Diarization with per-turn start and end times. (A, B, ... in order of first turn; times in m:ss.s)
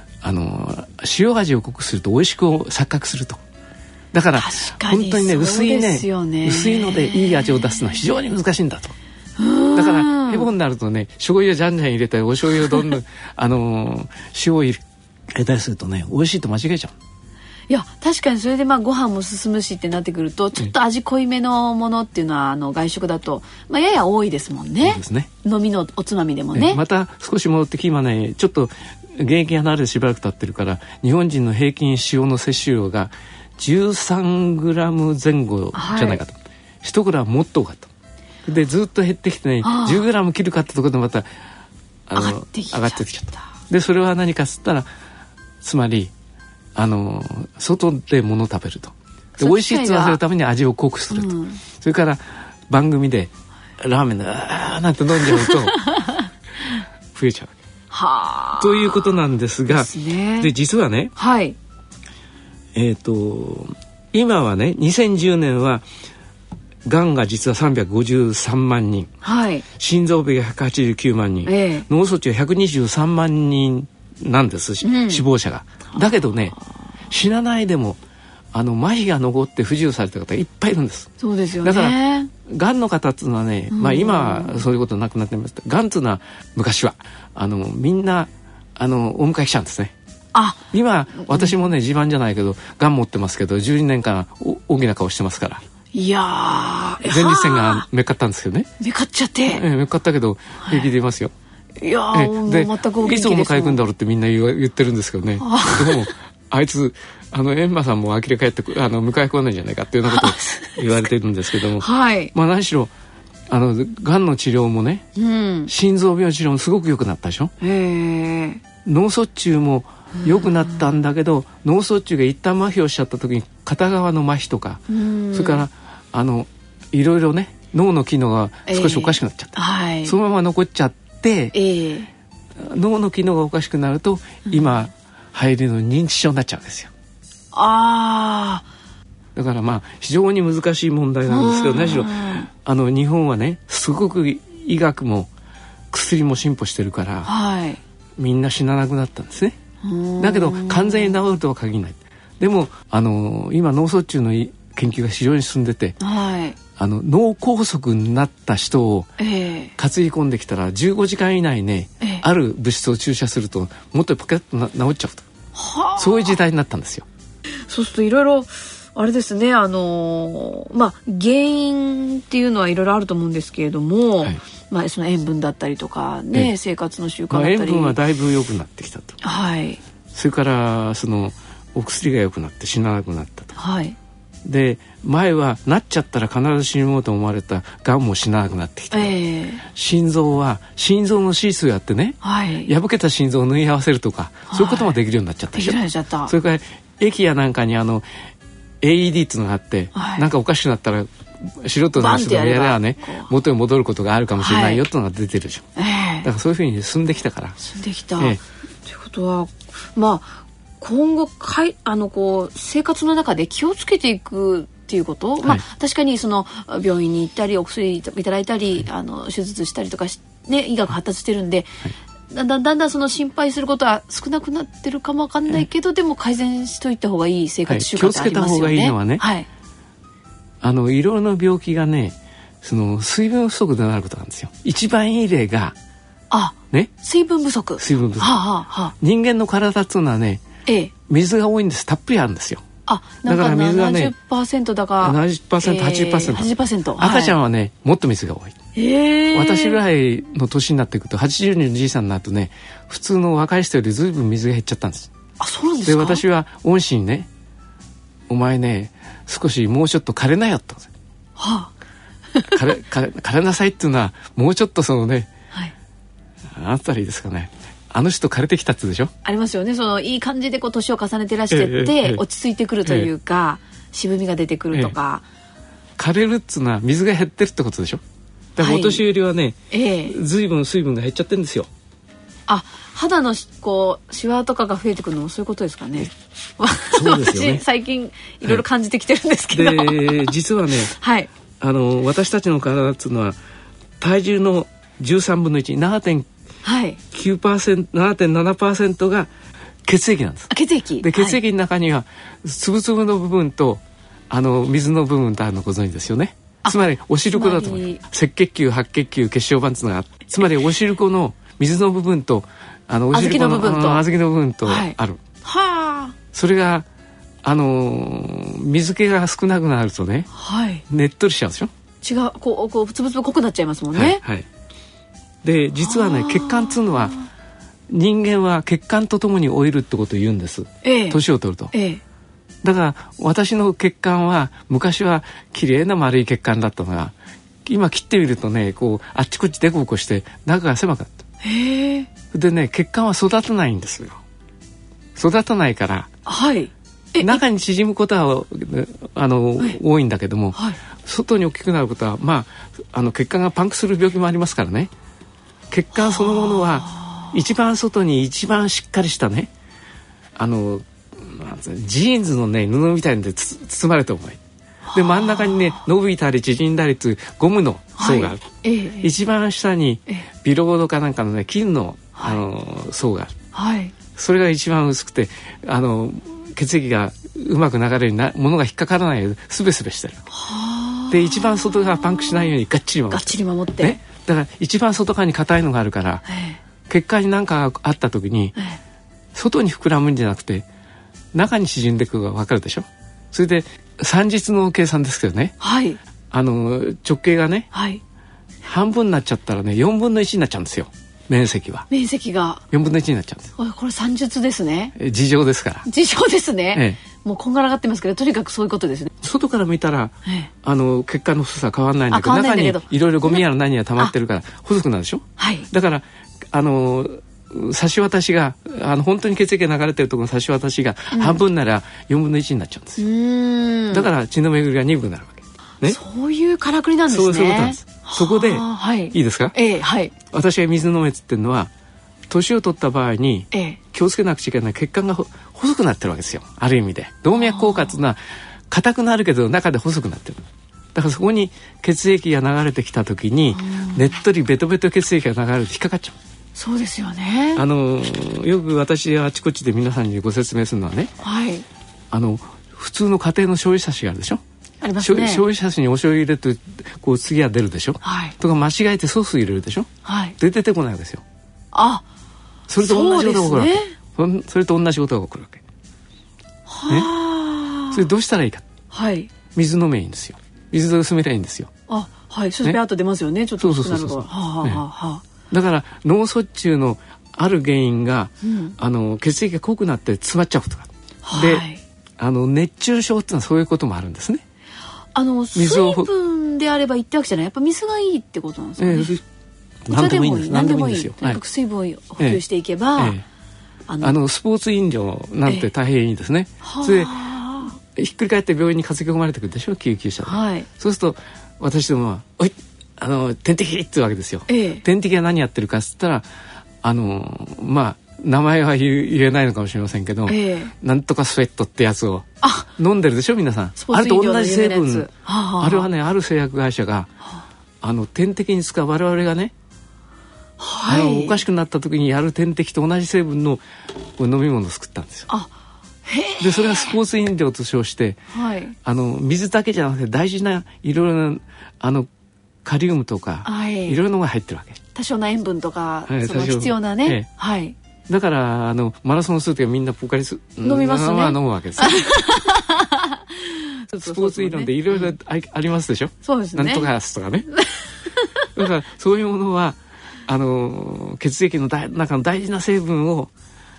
0:00.2-0:03.4 A
0:04.1-0:09.0 A
0:04.4-0:07.6 B
0:09.4-0:10.5 B
0:09.8-0:16.9 A
0:17.7-0:26.8 B
0:24.8-0:25.3 A
0:26.5-0:37.9 A
0:35.7-0:36.2 B
0:38.5-0:41.3 A
0:39.6-0:40.0 B
0:42.1-0:44.9 A
0:42.2-0:43.4 B
0:45.6-0:46.1 A
0:46.8-0:55.9 A
0:49.4-0:50.2 B
0:51.1-0:51.6 B
0:55.9-0:56.2 B
0:57.1-0:57.5 A
0:57.9-0:59.1 B
0:58.6-1:01.1 A
0:59.7-1:00.5 B
1:01.2-1:01.6 B
1:02.8-1:05.8 A
1:06.9-1:09.1 A
1:09.2-1:09.7 B
1:09.8-1:16.6 A
1:11.4-1:11.9 B
1:14.8-1:15.2 B
1:17.1-1:18.0 A
1:18.5-1:21.1 A
1:21.2-1:22.3 B
1:21.6-1:29.9 A
1:23.7-1:24.6 B
1:30.3-1:30.6 B
1:30.7-1:35.6 A
1:31.2-1:31.6 B
1:35.9-1:37.9 B
1:37.0-1:38.7 A
1:38.8-1:39.6 B
1:39.5-1:41.3 A
1:40.6-1:40.9 B
1:41.8-1:43.8 B
1:42.1-1:52.9 A
1:45.4-1:46.1 B
1:50.1-1:50.8 B
1:51.8-1:52.3 B
1:53.5-1:55.0 A
1:55.2-1:55.7 B
1:55.7-1:57.5 A
1:57.6-1:58.6 B
1:58.8-2:11.6 A
2:00.2-2:00.5 B
2:04.9-2:05.7 B
2:08.7-2:10.2 B
2:11.5-2:12.1 B
2:12.6-2:16.9 A
2:17.5-2:18.6 B
2:19.4-2:25.3 A
2:21.3-2:22.5 B
2:25.9-2:27.3 A
2:27.2-2:27.8 B
2:28.2-2:29.6 A
2:29.8-2:31.2 B
2:30.2-2:36.0 A
2:36.0-2:36.6 B
2:36.8-2:39.1 A
2:39.2-2:39.7 B
2:39.8-2:45.2 A
2:45.6-2:46.4 B
2:46.0-2:47.1 A
2:47.7-2:58.0 B
2:57.3-2:59.2 A
2:59.2-2:59.8 B
3:00.1-3:03.5 A
3:03.6-3:04.0 B
3:04.4-3:18.0 A
3:08.9-3:09.6 B
3:12.2-3:12.7 B
3:14.5-3:15.0 B
3:15.5-3:16.3 B
3:18.8-3:25.7 A
3:20.0-3:20.3 B
3:22.0-3:23.3 B
3:24.4-3:24.8 B
3:25.8-3:26.3 B
3:26.2-3:27.6 A
3:27.6-3:41.7 B
3:42.3-3:49.5 B
3:47.7-3:49.3 A
3:50.6-3:55.8 A
3:56.3-3:59.0 B
3:57.8-3:58.4 A
3:59.0-4:00.4 A
4:00.7-4:00.9 B
4:01.1-4:02.6 A
4:02.9-4:07.4 B
4:03.2-4:04.1 A
4:05.0-4:08.6 A
4:08.8-4:09.8 B
4:09.3-4:15.1 A
4:15.4-4:16.2 B
4:15.9-4:17.3 A
4:18.3-4:20.9 A
4:21.4-4:21.7 B
4:22.3-4:22.7 B
4:22.5-4:25.3 A
4:26.5-4:29.1 A
4:29.2-4:35.2 B
4:31.5-4:32.2 A
4:32.8-4:33.1 A
4:36.0-4:38.0 A
4:38.6-4:41.7 A
4:38.6-4:39.0 B
4:39.7-4:40.2 B
4:42.5-4:50.3 B
4:46.9-4:47.6 A
4:49.5-4:50.9 A
4:50.9-4:51.3 B
4:51.6-4:53.4 A
4:54.0-4:56.3 A
4:56.6-4:57.0 B
4:57.1-4:59.3 A
4:59.8-5:15.2 A
5:00.5-5:01.4 B
5:06.6-5:08.0 B
5:13.1-5:14.0 B
5:14.6-5:16.2 B
5:16.3-5:16.9 A
5:17.4-5:20.3 A
5:20.3-5:20.8 B
5:20.9-5:21.7 A
5:22.0-5:24.2 B
5:23.9-5:24.5 A
5:25.4-5:27.2 A
5:25.8-5:27.3 B
5:27.9-5:31.7 A
5:30.8-5:31.2 B
5:31.7-5:32.0 B
5:32.6-5:37.1 A
5:37.6-5:41.2 A
5:41.4-5:42.1 B
5:42.3-5:44.2 A
5:45.2-5:46.1 A
5:46.3-5:47.4 B
5:47.2-5:54.9 A
5:55.7-5:59.5 A
5:56.0-5:57.3 B
6:00.4-6:04.4 A
6:04.9-6:05.8 B
6:04.9-6:08.4 A
6:08.0-6:09.1 B
6:09.0-6:13.3 A
6:12.2-6:12.4 B
6:13.5-6:14.0 B
6:14.2-6:20.3 A
6:20.3-6:22.5 B
6:21.1-6:26.2 A
6:23.1-6:24.0 B
6:26.3-6:26.6 B
6:26.9-6:28.6 A
6:29.3-6:30.7 A
6:31.3-6:35.6 A
6:35.6-6:36.0 B
6:36.3-6:37.7 A
6:37.7-6:38.0 B
6:38.6-6:41.9 A
6:41.9-6:42.6 B
6:42.7-6:43.5 A
6:43.6-6:45.0 B
6:45.0-6:45.9 A
6:45.8-6:49.1 B
6:46.7-6:47.0 A
6:49.2-7:03.0 A
6:52.1-6:53.4 B
6:55.4-6:55.7 B
7:01.1-7:01.4 B
7:03.0-7:04.1 B
7:03.9-7:06.0 A
7:05.8-7:10.1 B
7:07.1-7:09.6 A
7:10.3-7:11.7 A
7:12.3-7:18.2 A
7:13.5-7:13.8 B
7:17.4-7:17.9 B
7:18.7-7:26.2 A
7:23.6-7:24.1 B
7:26.6-7:27.6 B
7:27.6-7:31.1 A
7:31.2-7:31.6 B
7:32.1-7:34.4 A
7:34.8-7:35.5 B
7:35.0-7:41.2 A
7:38.0-7:38.4 B
7:40.0-7:40.4 B
7:41.7-7:42.0 B
7:42.7-7:45.6 A
7:42.8-7:44.0 B
7:46.7-7:48.0 B
7:47.9-7:48.7 A
7:48.9-7:49.3 B
7:49.5-7:51.7 A
7:51.9-7:55.2 B
7:53.6-7:54.8 A
7:55.5-8:01.6 A
7:58.4-7:58.8 B
8:01.2-8:01.8 B
8:02.2-8:04.4 A
8:05.2-8:09.2 B
8:05.6-8:06.1 A
8:08.8-8:09.2 A
8:09.9-8:11.4 A
8:09.9-8:13.2 B
8:13.0-8:13.2 A
8:13.9-8:14.2 B
8:14.0-8:17.2 A
8:16.6-8:17.8 B
8:17.8-8:26.3 A
8:20.2-8:20.7 B
8:24.5-8:24.8 B
8:26.8-8:37.1 A
8:30.3-8:30.7 B
8:32.4-8:32.7 B
8:33.8-8:35.9 B
8:37.8-8:39.5 A
8:40.6-8:41.4 B
8:40.9-8:43.6 A
8:44.2-8:45.3 A
8:46.0-8:47.0 B
8:46.4-8:48.2 A
8:48.3-8:48.8 B
8:48.8-8:52.1 A
8:52.6-8:54.8 A
8:53.4-8:54.0 B
8:54.9-8:57.8 B
8:56.1-8:57.3 A
8:58.1-9:02.2 A
9:00.6-9:05.1 B
9:04.0-9:07.5 A
9:06.2-9:06.9 B
9:08.2-9:08.5 B
9:08.6-9:13.3 A